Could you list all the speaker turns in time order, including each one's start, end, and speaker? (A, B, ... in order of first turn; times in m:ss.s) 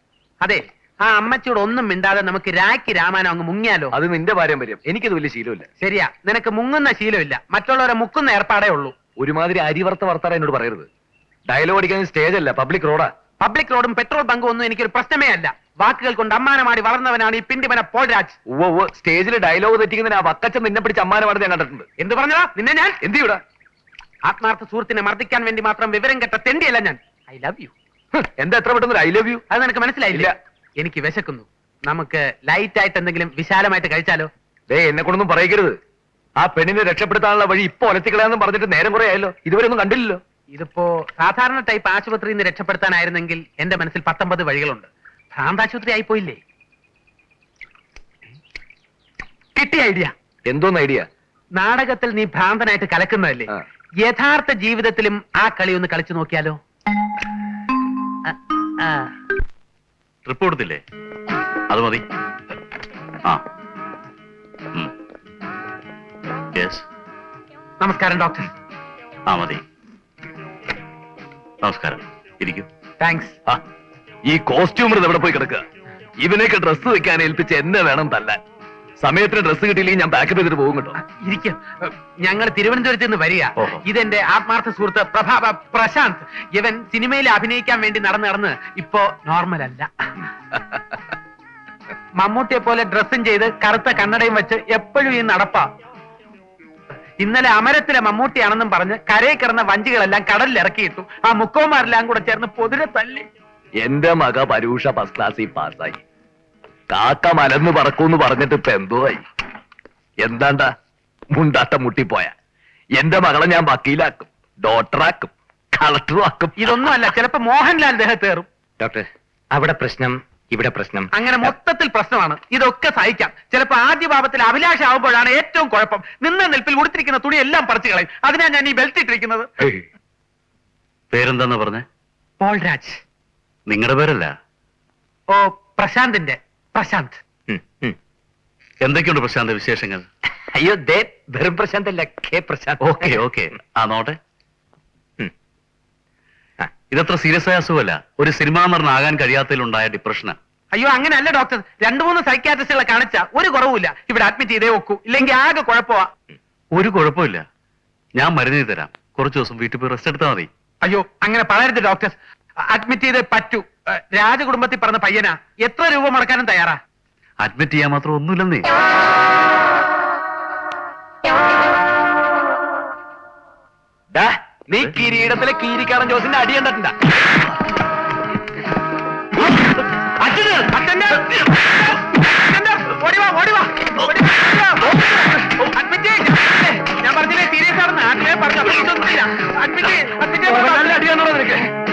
0:00.4-0:03.9 A
0:03.9-0:05.7 B
0:05.8-0:08.9 A
0:09.2-0:10.9 B
0:11.5-0:13.1 B
0:13.4-0:18.4 A
0:18.5-0:21.9 B
0:22.0-0:23.0 A
0:23.0-0:23.4 B
0:24.2-0:27.7 A
0:28.2-0:29.4 B
0:29.5-0:34.3 A
0:34.7-0:35.8 B
0:36.4-0:40.2 B
0:40.5-0:46.4 A
0:49.6-0:50.1 A
0:50.5-0:51.1 B
0:51.6-0:53.5 A
0:54.0-0:56.6 A
0:58.3-0:59.1 A
1:00.3-1:00.8 C
1:01.7-1:02.0 C
1:06.6-1:06.8 C
1:07.8-1:08.5 A
1:09.3-1:09.6 C
1:11.6-1:12.7 C
1:13.0-1:13.4 A
1:14.3-1:15.7 B
1:16.2-1:18.4 B
1:19.0-1:21.0 B
1:21.0-1:29.9 A
1:32.2-1:35.7 A
1:37.2-1:43.3 A
1:43.8-1:46.0 B
1:46.9-1:49.2 B
1:50.2-1:50.7 B
1:51.3-1:52.3 B
1:53.0-1:56.9 B
1:56.6-1:58.5 A
1:58.8-2:01.5 B
2:01.1-2:09.5 A
2:09.6-2:09.8 B
2:11.1-2:11.8 C
2:12.4-2:13.0 A
2:13.7-2:14.4 C
2:15.3-2:17.2 A
2:17.5-2:18.0 B
2:18.8-2:20.1 C
2:20.5-2:23.2 B
2:22.8-2:24.2 C
2:26.9-2:30.4 C
2:30.7-2:36.1 A
2:36.7-2:37.4 C
2:38.2-2:40.5 C
2:40.8-2:42.2 A
2:42.7-2:46.8 A
2:47.4-2:48.7 C
2:54.1-2:57.0 B
3:00.7-3:05.1 A
3:04.8-3:05.6 B
3:05.7-3:11.0 A
3:10.4-3:11.7 B